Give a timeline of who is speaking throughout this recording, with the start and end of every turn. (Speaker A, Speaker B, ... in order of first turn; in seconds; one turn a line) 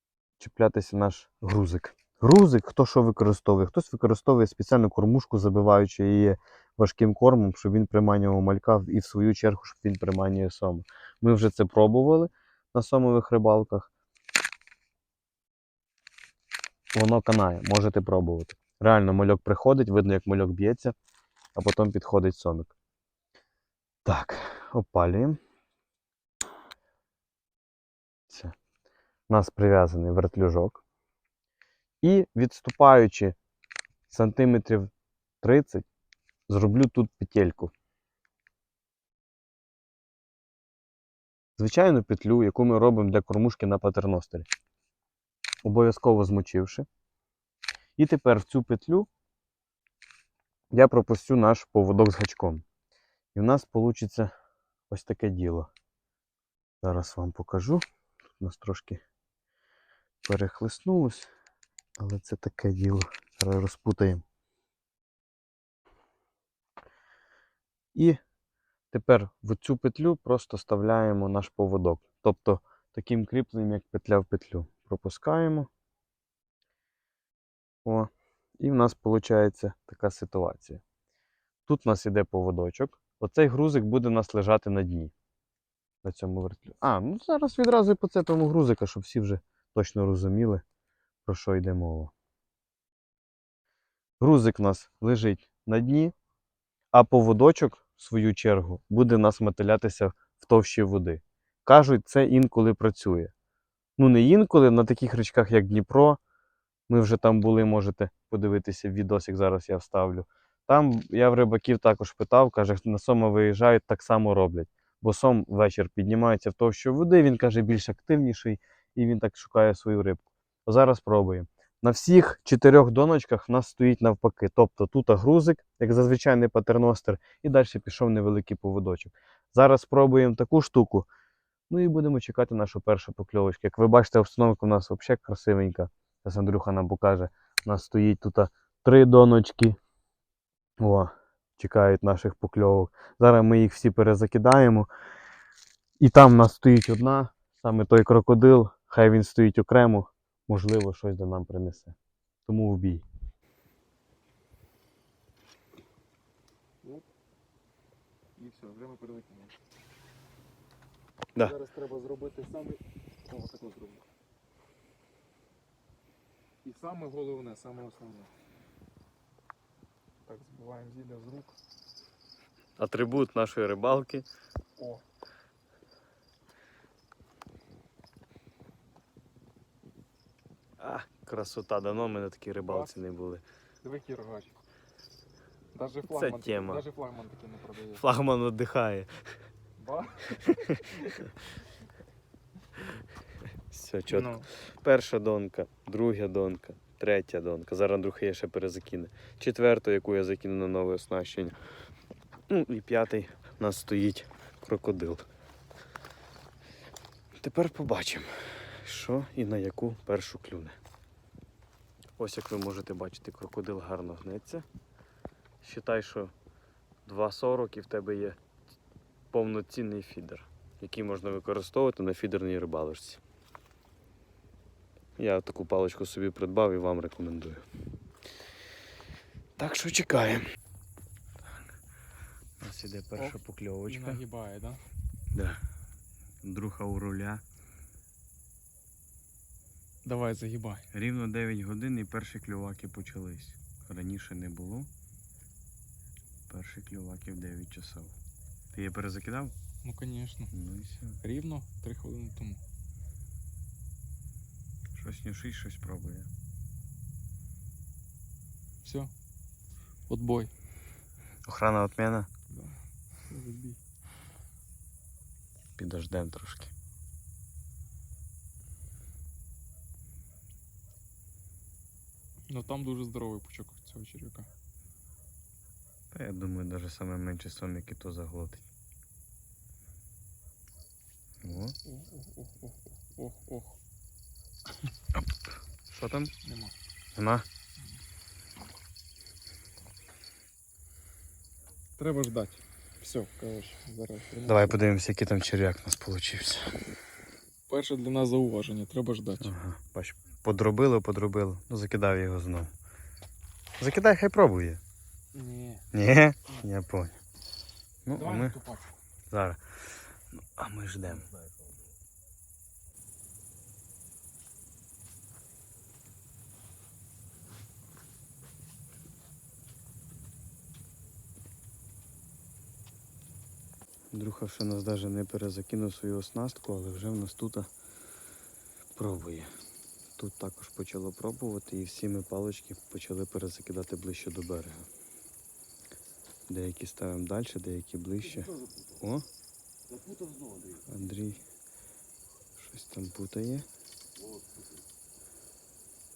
Speaker A: 0.4-13.9
Speaker A: 16.9-20.9
Speaker A: 21.6-22.7
Speaker A: 24.1-25.4
Speaker A: 28.3-28.5
Speaker A: 29.3-30.8
Speaker A: 32.0-33.4
Speaker A: 34.1-34.9
Speaker A: 35.4-35.9
Speaker A: 36.5-37.7
Speaker A: 41.6-44.5
Speaker A: 45.6-46.9
Speaker A: 48.0-49.1
Speaker A: 50.7-52.6
Speaker A: 53.4-54.3
Speaker A: 54.9-55.7
Speaker A: 56.8-57.8
Speaker A: 58.4-59.0
Speaker A: 60.2-61.3
Speaker A: 62.0-64.2
Speaker A: 68.9-75.7
Speaker A: 77.8-80.8
Speaker A: 81.7-85.1
Speaker A: 86.0-90.6
Speaker A: 91.3-92.1
Speaker A: 94.2-96.1
Speaker A: 96.9-103.3
Speaker A: 104.0-106.2
Speaker A: 106.9-131.1
Speaker A: 131.7-139.8
Speaker A: 140.8-144.9
Speaker A: 146.0-153.0
Speaker B: 158.4-159.6
Speaker B: 161.4-164.1
Speaker B: 166.6-168.3
Speaker B: 170.3-171.6
Speaker A: 172.8-174.3
Speaker B: 174.8-175.0
Speaker A: 180.8-183.4
Speaker B: 182.6-183.1
Speaker B: 183.8-184.6
Speaker B: 185.7-188.0
Speaker A: 186.1-186.8
Speaker A: 188.0-189.2
Speaker B: 189.8-191.3
Speaker A: 190.4-190.8
Speaker A: 193.7-201.6
Speaker B: 194.1-194.5
Speaker A: 202.5-205.3
Speaker A: 207.4-210.8
Speaker A: 212.2-214.7
Speaker A: 215.6-216.3
Speaker A: 217.1-218.4
Speaker A: 219.3-223.2
Speaker A: 225.2-227.6
Speaker A: 229.6-230.4
Speaker A: 232.6-234.2
Speaker B: 233.2-234.8
Speaker A: 235.3-235.6
Speaker A: 236.4-237.4
Speaker B: 240.0-240.9
Speaker A: 240.9-244.9
Speaker A: 246.5-248.1
Speaker A: 248.7-249.6
Speaker B: 249.8-250.5
Speaker A: 250.5-251.2
Speaker B: 251.2-252.6
Speaker A: 254.9-256.3
Speaker B: 258.8-259.1
Speaker B: 260.1-260.5
Speaker A: 261.5-262.3
Speaker B: 262.5-263.8
Speaker A: 265.8-266.7
Speaker B: 272.5-274.5
Speaker A: 276.1-278.6
Speaker A: 281.4-281.8
Speaker B: 281.9-283.8
Speaker A: 285.9-286.3
Speaker B: 286.4-286.7
Speaker A: 287.2-287.5
Speaker B: 292.0-294.8
Speaker A: 294.5-296.8
Speaker B: 297.7-299.5
Speaker A: 299.4-302.7
Speaker A: 303.8-304.8
Speaker B: 305.3-305.9
Speaker A: 305.9-307.2
Speaker A: 308.1-308.6
Speaker B: 308.2-308.9
Speaker A: 309.3-309.6
Speaker A: 310.4-311.3
Speaker A: 324.1-327.7
Speaker A: 329.0-329.5
Speaker A: 330.2-334.9
Speaker A: 336.5-339.2
Speaker A: 340.8-341.4
Speaker A: 342.6-343.7